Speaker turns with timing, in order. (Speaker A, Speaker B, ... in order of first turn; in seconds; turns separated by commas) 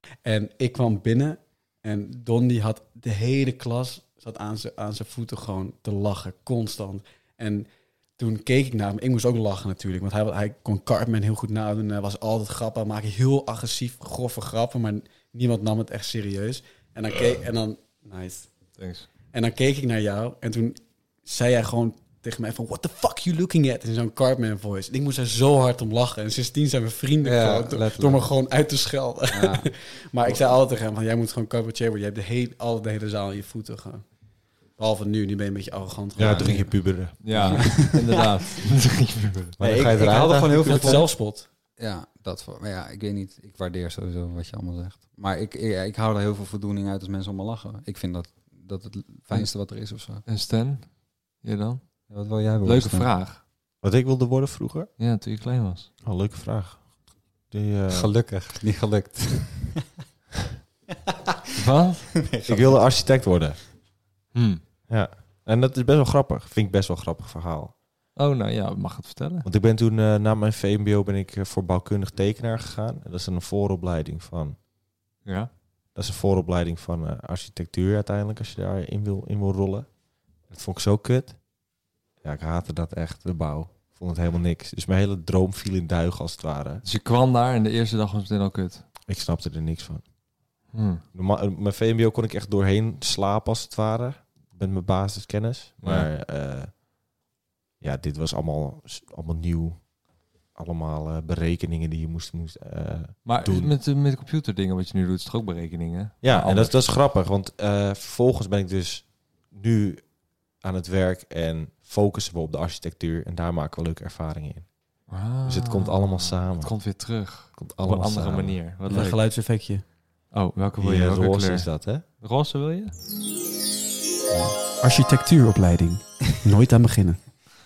Speaker A: 0.2-18.5, Speaker B: 18.8-19.1, Speaker A: 19.3-34.0, Speaker C: 27.2-28.3, Speaker C: 29.3-29.7, Speaker A: 34.7-37.9, Speaker D: 36.1-37.5, Speaker B: 37.2-39.5, Speaker C: 37.3-37.8, Speaker D: 39.6-40.7, Speaker C: 39.6-50.2, Speaker A: 40.3-41.5, Speaker B: 40.7-40.9, Speaker B: 50.3-52.0, Speaker C: 52.1-53.1, Speaker B: 52.6-53.4, Speaker D: 53.8-54.9, Speaker B: 55.0-55.9, Speaker D: 56.0-56.9, Speaker D: 57.5-58.1, Speaker C: 57.9-59.8, Speaker B: 61.6-62.1, Speaker C: 62.2-63.2, Speaker D: 62.5-63.6, Speaker B: 64.3-64.6, Speaker D: 64.9-67.7, Speaker B: 68.2-69.5, Speaker D: 69.4-74.6, Speaker B: 75.2-75.5, Speaker D: 75.9-79.9, Speaker D: 80.5-81.4, Speaker D: 82.2-86.8, Speaker B: 86.8-88.8, Speaker D: 89.1-90.0, Speaker B: 90.7-91.0, Speaker D: 91.1-96.8, Speaker B: 95.8-96.1, Speaker D: 97.8-99.9, Speaker D: 100.5-103.7, Speaker B: 103.2-106.8, Speaker D: 106.2-114.7, Speaker B: 115.1-119.2, Speaker D: 115.4-118.6, Speaker A: 118.8-119.8, Speaker B: 120.3-122.9, Speaker D: 120.8-122.0, Speaker C: 124.3-124.5, Speaker A: 124.8-127.3